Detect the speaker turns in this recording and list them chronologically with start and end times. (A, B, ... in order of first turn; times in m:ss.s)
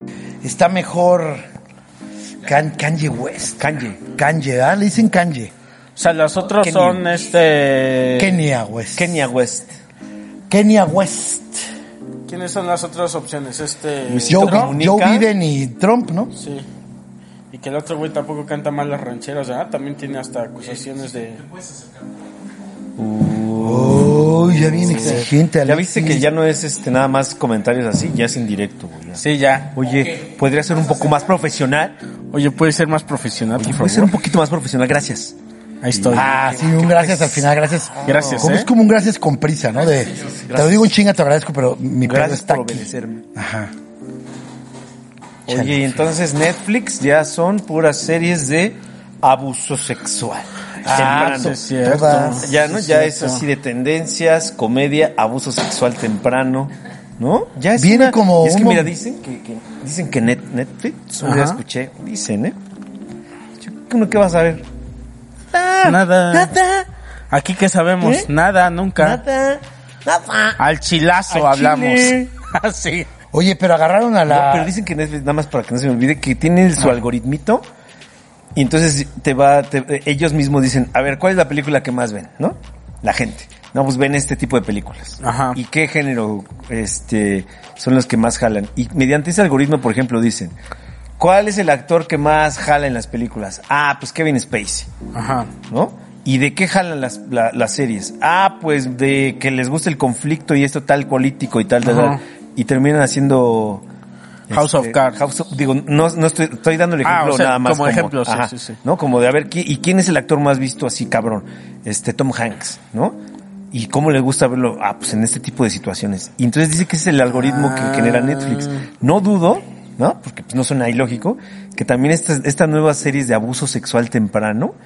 0:00.4-0:01.4 A
0:02.4-0:05.5 A
0:03.6-0:04.1 B
0:06.0-0:08.4 C
0:06.6-0:07.2 B
0:08.2-0:09.2 A
0:09.0-0:09.7 B
0:10.5-0:11.7 A
0:12.3-0:14.7 C
0:14.1-0:15.3 B
0:14.3-0:16.3 A
0:16.4-0:16.7 C
0:17.5-0:21.4 C
0:23.0-0:32.0 B
0:23.6-0:26.3 A
0:29.2-0:29.7 C
0:32.3-0:34.1 C
0:33.6-0:35.4 B
0:35.8-0:36.3 C
0:35.9-0:38.6 B
0:36.1-0:43.7 A
0:38.1-0:38.7 C
0:40.2-0:40.9 B
0:42.0-0:43.2 B
0:45.5-1:02.6 B
0:45.5-0:46.0 A
0:50.8-0:52.5 A
0:50.9-0:53.4 C
0:57.8-0:58.9 A
1:01.2-1:01.6 C
1:03.6-1:04.6 B
1:05.5-1:06.9 B
1:05.8-1:06.5 C
1:07.3-1:09.2 C
1:08.0-1:08.3 B
1:09.0-1:10.6 B
1:10.6-1:13.1 C
1:11.3-1:12.3 B
1:13.3-1:14.7 A
1:14.3-1:17.6 B
1:18.6-1:30.5 B
1:25.2-1:25.6 C
1:31.2-1:34.9 B
1:35.1-1:35.5 C
1:35.7-1:43.8 B
1:41.8-1:42.2 C
1:44.5-1:53.2 B
1:44.5-1:45.2 C
1:47.0-1:48.8 C
1:53.7-2:04.7 B
1:57.4-1:58.8 C